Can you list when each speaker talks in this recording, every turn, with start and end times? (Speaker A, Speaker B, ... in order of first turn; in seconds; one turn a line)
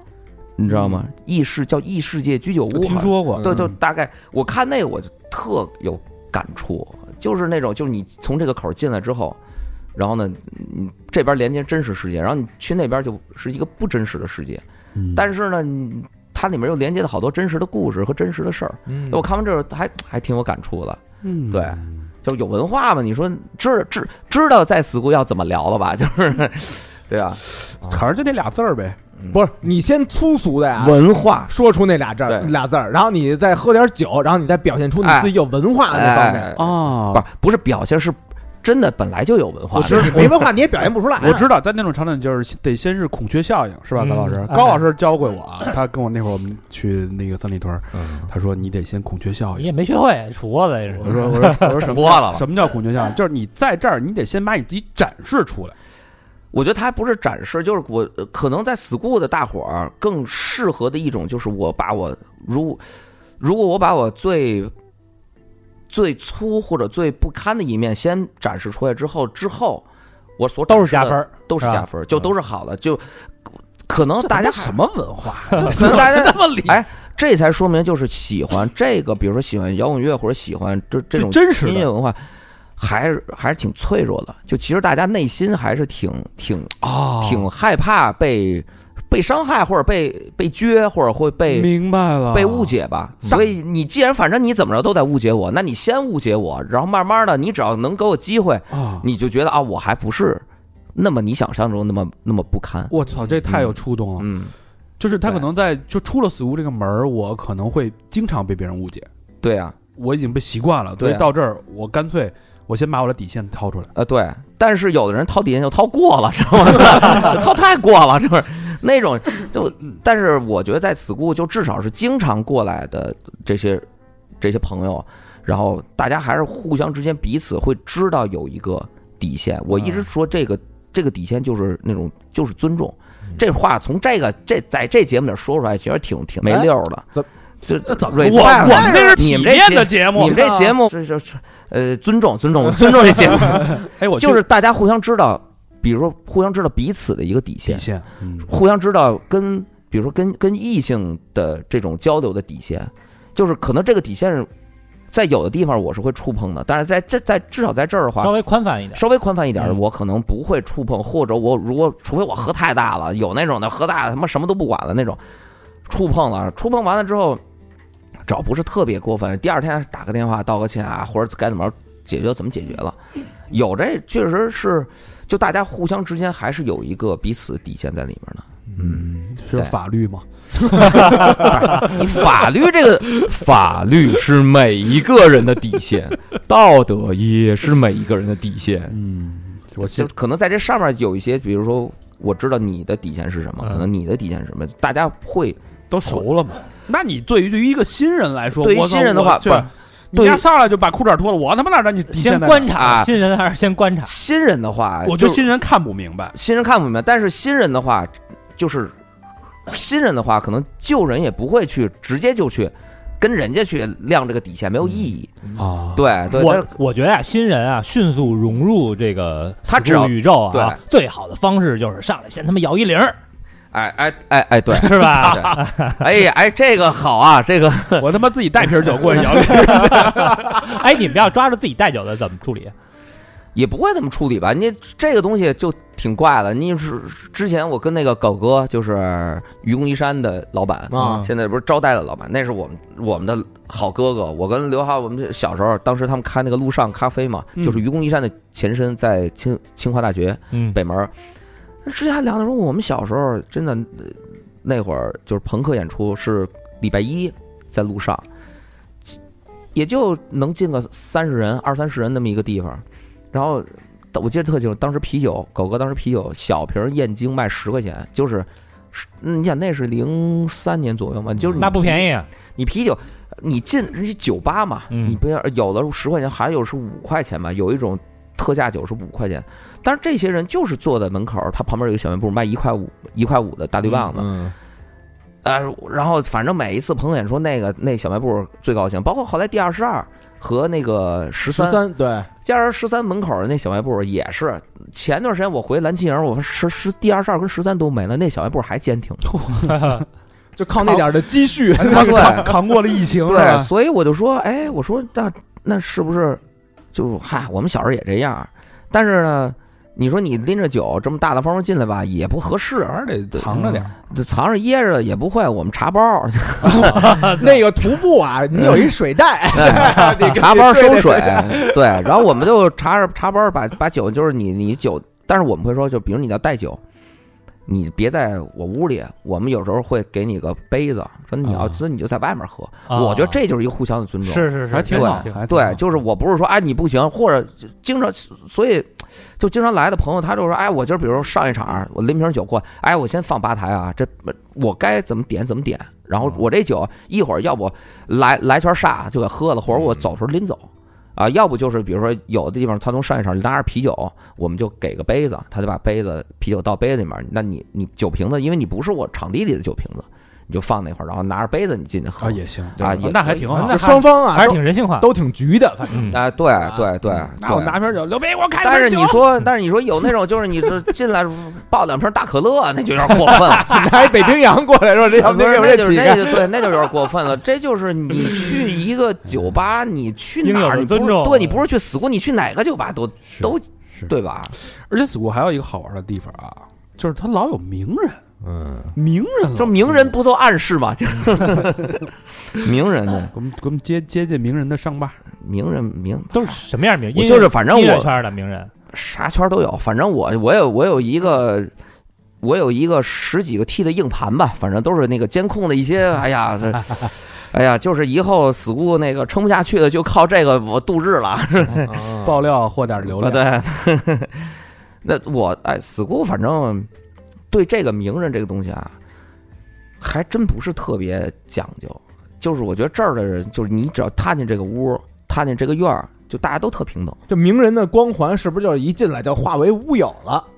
Speaker A: 0.6-9.4
Speaker B: 2.7-3.7
Speaker A: 9.9-14.6
Speaker B: 14.9-15.2
Speaker A: 15.1-28.0
Speaker C: 18.9-19.2
Speaker B: 21.2-22.0
Speaker B: 27.7-29.0
Speaker A: 29.2-29.4
Speaker C: 29.3-36.6
Speaker A: 30.8-31.5
Speaker A: 32.3-32.5
Speaker A: 35.0-35.4
Speaker A: 35.9-40.4
Speaker B: 36.6-37.2
Speaker B: 39.8-40.5
Speaker C: 39.8-41.5
Speaker B: 41.2-49.7
Speaker D: 44.0-44.8
Speaker D: 49.6-51.9
Speaker B: 50.9-55.8
Speaker A: 51.8-52.5
Speaker A: 56.5-62.8
Speaker A: 63.4-64.7
Speaker A: 65.9-69.8
Speaker A: 70.4-73.3
Speaker D: 70.7-71.8
Speaker A: 73.8-74.8
Speaker B: 74.1-76.8
Speaker A: 75.6-82.2
Speaker B: 81.1-81.9
Speaker A: 82.8-91.7
Speaker B: 86.8-87.5
Speaker B: 91.5-92.7
Speaker A: 92.3-100.4
Speaker B: 98.7-99.1
Speaker A: 101.0-104.5
Speaker B: 102.9-104.3
Speaker B: 105.0-109.1
Speaker A: 109.4-109.8
Speaker B: 110.0-113.9
Speaker A: 111.0-111.3
Speaker A: 114.0-123.9
Speaker A: 124.4-137.1
Speaker C: 136.4-137.3
Speaker A: 137.6-147.9
Speaker B: 137.8-140.6
Speaker C: 138.3-139.2
Speaker C: 140.2-140.8
Speaker B: 143.5-144.4
Speaker B: 147.7-148.5
Speaker A: 148.4-154.5
Speaker A: 155.1-158.3
Speaker D: 158.2-159.0
Speaker A: 158.9-165.2
Speaker A: 165.9-167.4
Speaker A: 168.3-173.0
Speaker A: 173.5-179.0
Speaker B: 178.7-181.9
Speaker A: 180.9-189.0
Speaker B: 188.9-190.1
Speaker A: 189.8-196.2
Speaker B: 195.9-202.8
Speaker A: 198.6-200.4
Speaker D: 202.1-204.1
Speaker A: 202.7-203.1
Speaker A: 204.1-205.4
Speaker B: 205.0-206.3
Speaker A: 206.3-208.9
Speaker A: 209.7-215.3
Speaker B: 215.6-216.0
Speaker A: 215.9-216.7
Speaker D: 216.3-223.2
Speaker A: 219.7-220.8
Speaker A: 223.7-228.1
Speaker D: 224.7-226.0
Speaker B: 228.0-230.6
Speaker D: 229.6-232.7
Speaker A: 233.6-251.1
Speaker C: 240.9-241.3
Speaker D: 250.5-250.8
Speaker A: 251.8-258.3
Speaker A: 259.7-284.3
Speaker B: 271.4-271.7
Speaker D: 271.6-272.3
Speaker D: 274.9-275.2
Speaker C: 284.1-284.5
Speaker A: 285.4-291.9
Speaker C: 291.5-292.3
Speaker A: 292.4-299.3
Speaker B: 299.3-300.1
Speaker C: 300.6-302.6
Speaker B: 300.8-301.2
Speaker B: 301.7-303.7
Speaker A: 301.9-302.6
Speaker A: 303.2-306.4
Speaker A: 306.9-317.3
Speaker B: 313.1-313.9
Speaker B: 316.6-317.6
Speaker C: 317.0-322.3
Speaker A: 319.5-326.8
Speaker A: 327.7-363.5
Speaker B: 331.4-331.8
Speaker D: 332.9-333.4
Speaker D: 334.2-335.3
Speaker B: 334.7-335.8
Speaker B: 362.2-364.0
Speaker D: 363.5-365.1
Speaker C: 363.7-366.8
Speaker D: 365.9-366.2
Speaker A: 366.1-367.8
Speaker B: 367.1-369.3
Speaker A: 368.6-373.9
Speaker C: 373.6-376.7
Speaker A: 375.1-384.5
Speaker D: 380.4-381.6
Speaker B: 383.4-388.2
Speaker C: 388.4-388.9
Speaker B: 388.9-390.1
Speaker A: 389.5-393.3
Speaker B: 393.3-395.2
Speaker A: 395.4-396.6
Speaker D: 396.3-398.7
Speaker A: 397.1-398.1
Speaker A: 398.9-401.7
Speaker A: 402.4-412.1
Speaker C: 411.8-412.4
Speaker B: 412.2-413.4
Speaker A: 413.1-416.9
Speaker A: 417.5-418.9
Speaker A: 420.0-427.2
Speaker C: 427.3-430.5